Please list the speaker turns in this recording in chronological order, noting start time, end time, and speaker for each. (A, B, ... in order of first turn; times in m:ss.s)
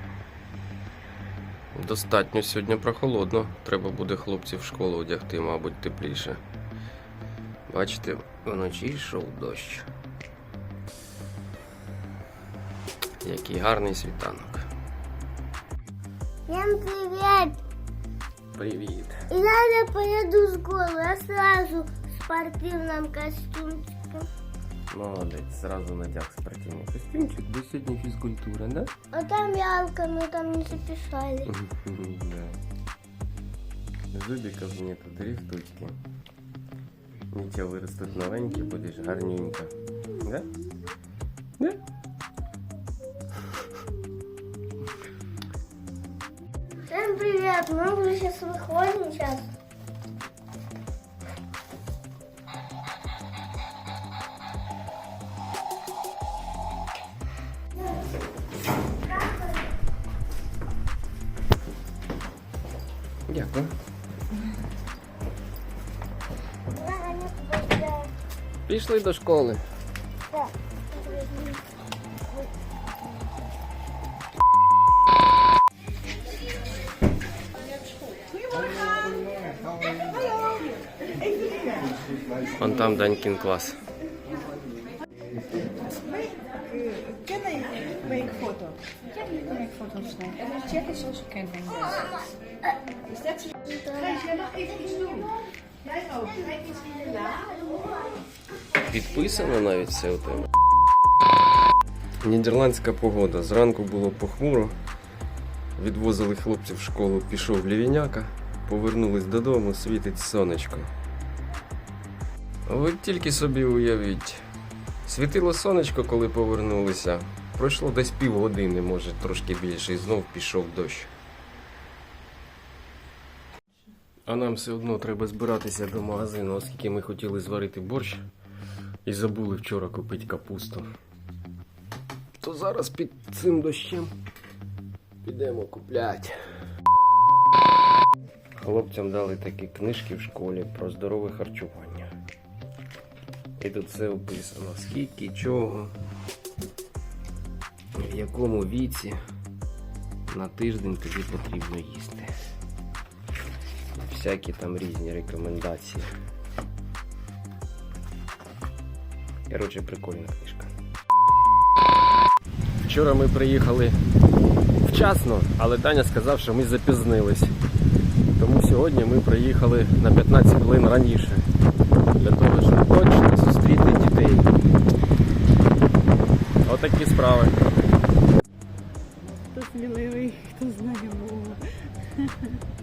0:01.8-0:06.4 A
0:07.7-0:09.9 A
0:13.2-0:14.7 A
0:16.5-0:17.6 B
0:18.5-0:19.2 A
0:19.3-0:24.3 B
0:24.9-0:28.9 A
0:29.1-0:31.5 B
0:31.5-0:32.6 A
0:34.1-0:36.0 A
0:37.3-0:40.5 A
0:46.9-0:49.5 B
1:03.3-1:03.7 A
1:06.8-1:08.1 B
1:08.7-1:09.6 A
1:10.3-1:11.6 B
1:18.6-1:19.0 C
1:22.6-1:23.8 A
1:26.1-1:31.9 C
1:33.7-1:35.3 B
1:37.0-1:37.8 B
1:38.8-1:40.5 A
1:42.2-1:44.8 A
1:45.8-1:50.9 A
1:52.7-1:54.4 A
1:55.1-2:01.1 A
2:04.3-2:08.2 A
2:09.0-2:10.9 A
2:12.4-2:14.1 A
2:15.2-2:16.4 A
2:18.6-2:22.1 A
2:23.6-2:26.0 A
2:28.0-2:29.2 A
2:30.3-2:32.3 A
2:34.0-2:36.1 A
2:39.5-2:40.7 A
2:42.8-2:44.0 A
2:44.8-2:47.5 A
2:48.4-2:51.5 A
2:52.2-2:54.5 A
2:56.6-2:57.6 A
2:59.6-3:01.6 C